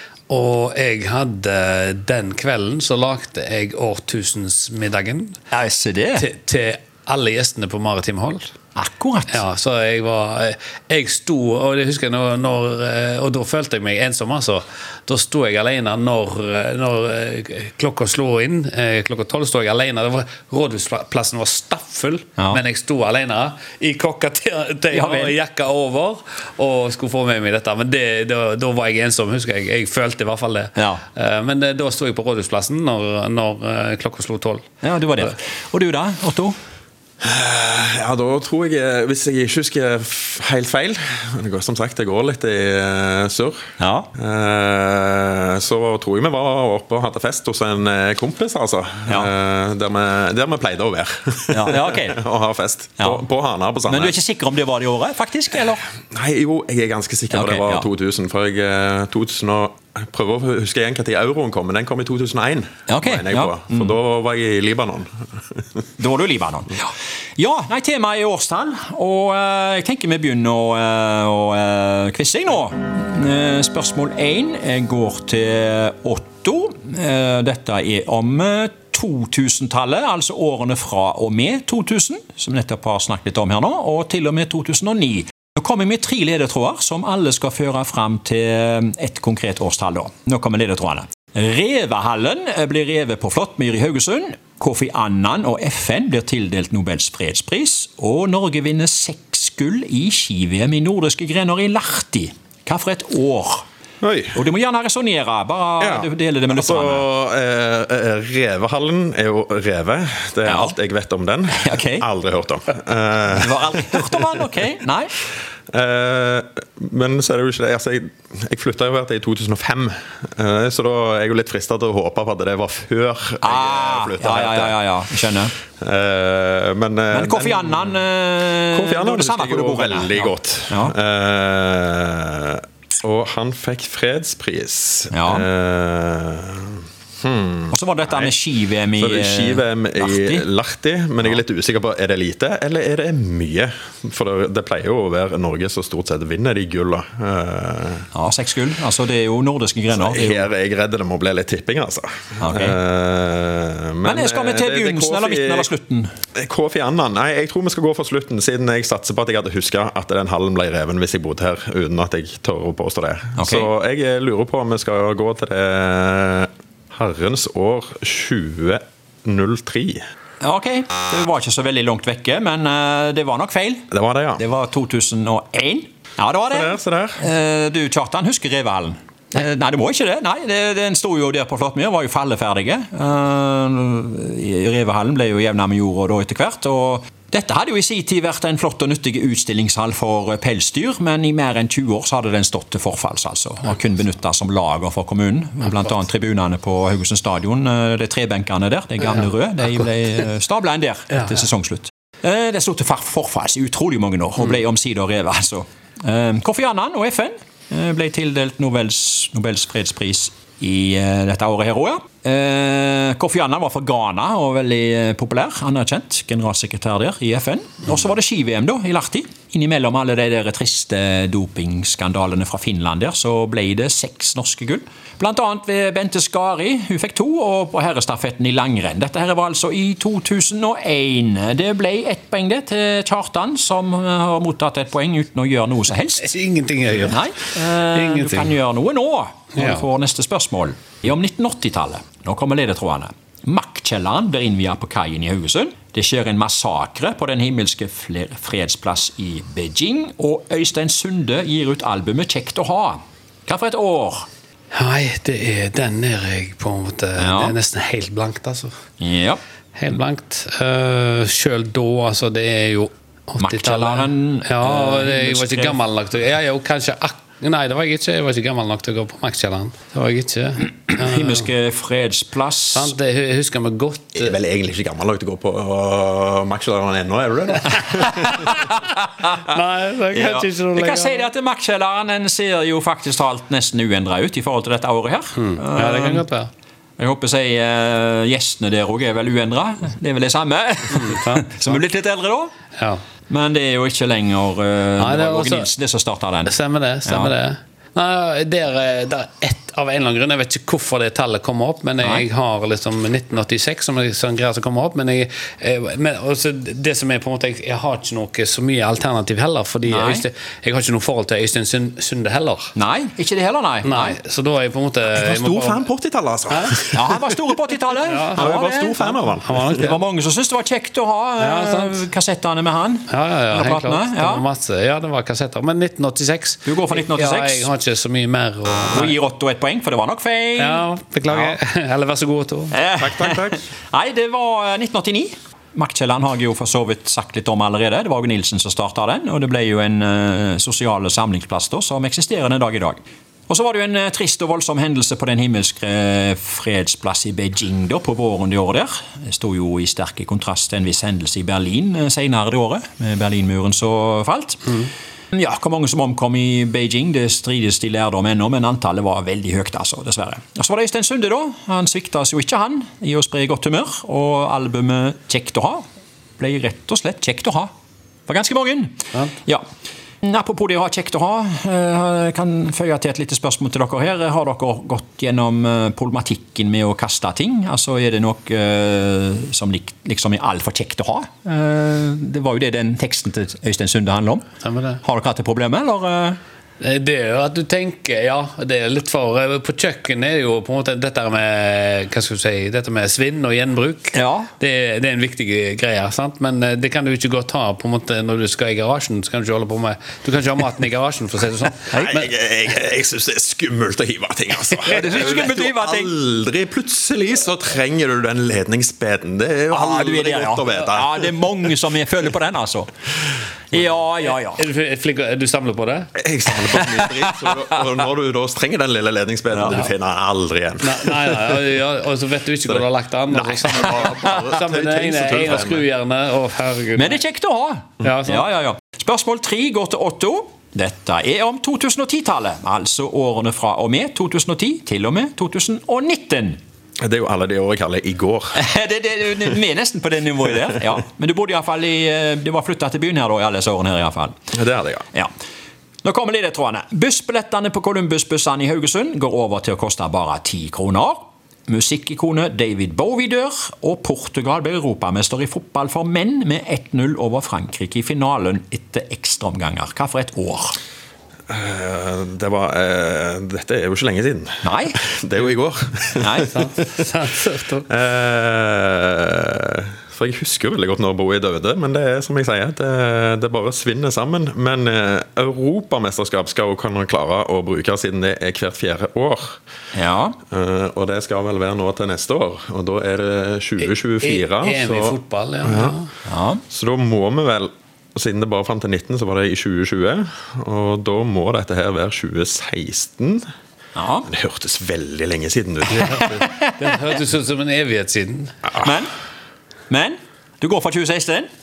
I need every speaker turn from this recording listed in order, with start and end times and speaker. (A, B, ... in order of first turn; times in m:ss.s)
0:00.3-0:05.4 A
0:05.5-0:06.3 B
0:06.2-0:08.5 A
0:08.8-0:09.4 B
0:09.3-0:34.7 A
0:24.9-0:25.4 B
0:30.8-0:31.0 B
0:34.8-0:36.6 B
0:37.2-0:43.6 C
0:43.8-0:44.1 B
0:44.2-0:54.2 C
0:51.5-0:52.2 B
0:53.0-0:53.3 B
0:53.9-0:55.8 B
0:56.1-1:05.6 C
0:57.3-0:57.9 B
1:02.9-1:04.0 B
1:06.0-1:43.6 B
1:44.0-1:44.4 C
1:44.3-1:47.1 B
1:45.8-1:54.1 C
1:50.4-1:50.8 B
1:51.6-1:52.1 B
1:53.3-1:55.2 B
1:55.7-2:04.8 C
2:03.4-2:05.5 B
2:05.8-2:07.9 C
2:07.1-2:11.0 B
2:08.7-2:18.3 C
2:15.1-2:15.5 B
2:17.7-2:20.5 B
2:18.9-2:28.1 C
2:28.1-2:30.5 B
2:30.0-2:35.7 C
2:32.4-2:32.8 B
2:34.0-2:36.1 B
2:36.4-2:50.0 C
2:43.4-2:43.7 B
2:50.4-2:53.8 B
2:53.9-2:54.4 C
2:54.4-3:56.3 B
2:56.5-2:57.2 C
3:56.2-3:57.2 A
3:57.1-4:14.3 B
3:57.8-3:58.6 A
3:59.6-3:59.8 A
4:14.7-4:18.7 A
4:17.2-4:17.6 B
4:19.0-4:19.4 B
4:19.8-4:31.5 A
4:23.4-4:25.8 B
4:30.8-4:33.0 B
4:32.7-4:34.4 A
4:34.2-4:38.5 C
4:37.7-4:38.7 A
4:38.3-4:39.4 B
4:39.4-4:41.3 A
4:40.1-4:46.2 B
4:45.4-4:46.5 A
4:47.0-4:52.5 B
4:50.9-4:51.8 A
4:53.3-4:57.3 B
4:55.0-4:55.7 A
4:56.4-5:12.7 A
5:09.9-5:10.2 B
5:12.8-5:14.2 B
5:13.8-5:15.9 A
5:15.1-5:17.3 C
5:16.5-5:16.8 A
5:16.9-5:24.4 B
5:18.1-5:18.5 A
5:18.3-5:19.9 C
5:19.3-5:20.0 A
5:21.4-5:22.0 A
5:23.1-5:29.2 A
5:26.6-5:27.7 B
5:28.9-5:31.6 B
5:30.6-5:32.8 A
5:32.7-6:05.8 B
5:33.0-5:33.6 C
6:06.4-6:07.7 B
6:08.3-6:09.6 B
6:10.2-6:24.4 B
6:24.6-6:25.0 A
6:25.0-6:26.4 B
6:26.8-6:42.3 A
6:34.1-6:34.5 B
6:41.9-6:42.2 B
6:42.0-6:51.7 C
6:44.8-6:45.2 A
6:44.8-6:46.1 B
6:49.7-6:52.9 B
6:53.7-6:54.6 B
6:54.2-6:56.2 A
6:56.2-7:01.6 C
6:56.6-6:57.8 B
6:59.5-6:59.9 B
7:00.8-7:07.2 A
7:03.3-7:05.9 C
7:03.6-7:04.4 B
7:07.0-7:16.6 B
7:08.0-7:08.5 A
7:17.0-7:18.6 C
7:18.6-7:24.5 B
7:24.5-7:25.1 C
7:26.0-7:40.8 B
7:41.5-7:46.9 C
7:44.6-7:45.0 B
7:46.2-7:46.6 B
7:46.4-7:47.9 A
7:47.9-7:59.6 C
7:59.9-8:00.4 B
8:00.5-8:06.0 C
8:03.8-8:06.1 A
8:06.3-8:06.6 B
8:06.7-8:13.4 C
8:14.0-8:14.3 B
8:14.3-8:16.2 C
8:15.9-8:18.7 A
8:16.0-8:17.0 B
8:18.7-8:19.1 B
8:19.9-8:21.5 B